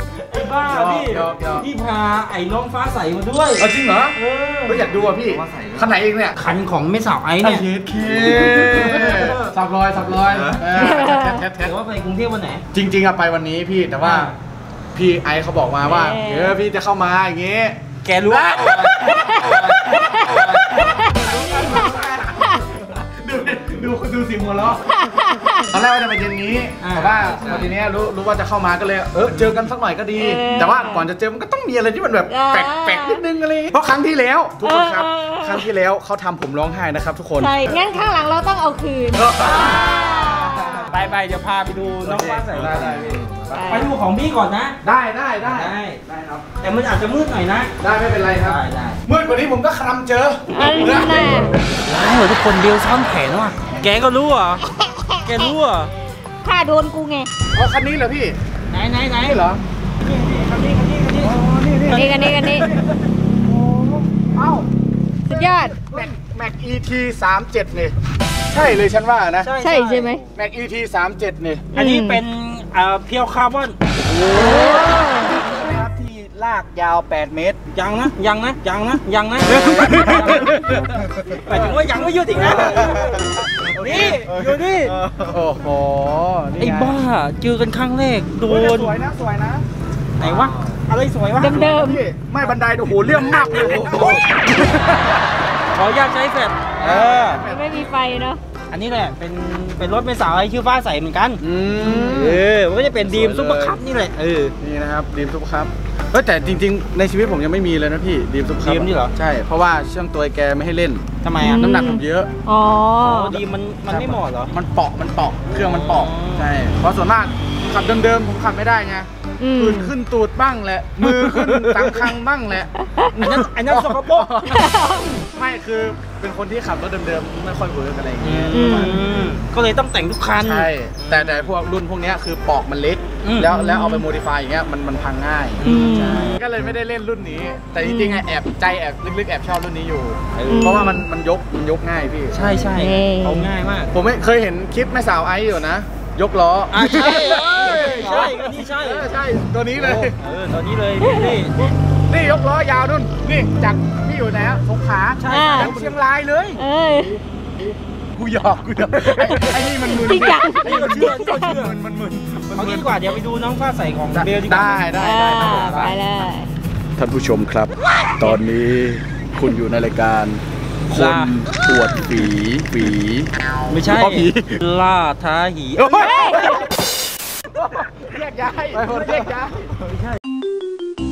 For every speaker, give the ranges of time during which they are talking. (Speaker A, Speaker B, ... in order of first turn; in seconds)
Speaker A: 0.1-5.5, 6.3-9.5, 10.3-12.6, 14.0-14.3, 18.0-20.9, 21.5-21.8, 26.8-27.8, 39.4-43.1, 43.6-44.8, 45.4-47.7, 48.4-49.0, 51.8-54.6, 55.2-55.9, 58.7-59.4, 60.0-62.7, 69.4-70.3, 71.7-73.8, 74.4-74.8, 77.7-80.6, 81.2-83.2, 83.7-85.0, 86.6-88.9, 90.2-92.0, 93.1-94.6, 95.7-97.4, 98.7-101.4, 102.0-104.5, 108.6-109.1, 111.2-111.6, 113.0-114.5, 115.5-116.5, 121.0-122.1, 123.2-124.3, 128.2-131.5, 133.2-133.7, 135.6-136.4, 140.3-140.9, 142.3-143.9, 146.7-149.1, 149.7-151.5, 155.2-155.9, 160.6-161.8, 162.5-164.9, 170.9-171.4, 173.7-176.4, 178.9-180.1
Speaker B: 0.6-1.7, 3.6-6.4, 7.4-11.7, 12.7-14.3, 14.9-24.8, 25.7-37.5, 39.1-40.8, 42.0-43.6, 44.8-46.4, 47.8-51.4, 57.5-58.4, 59.2-59.6, 61.2-62.8, 63.4-64.7, 65.3-67.9, 68.5-69.5, 70.3-71.7, 73.9-77.6, 79.5-80.9, 81.5-84.3, 85.0-87.0, 88.4-89.7, 91.6-95.2, 96.8-97.9, 101.4-102.4, 103.0-103.8, 104.6-112.3, 113.8-124.7, 125.3-129.3, 130.4-142.4, 143.9-150.1, 152.1-156.6, 158.1-162.9, 164.1-166.0, 167.0-173.3, 173.9-174.6, 175.8-176.7, 177.6-179.7
Speaker C: 16.1-16.5, 24.9-25.7, 30.2-31.1, 32.3-33.2, 34.6-35.7, 37.4-40.9, 43.5-43.9, 50.5-51.5, 54.7-55.5, 56.4-57.3, 61.9-62.7, 65.3-66.0, 69.6-70.2, 71.7-72.2, 74.4-75.3, 91.4-92.0, 97.4-98.4, 101.8-102.3, 111.4-113.4, 119.4-119.9, 124.5-125.1, 128.5-129.0, 133.6-134.0, 135.6-136.3, 137.9-138.2, 140.5-141.0, 142.7-143.5, 151.0-151.4, 155.3-155.8, 156.6-157.2, 159.2-161.0, 164.9-166.5, 176.0-176.6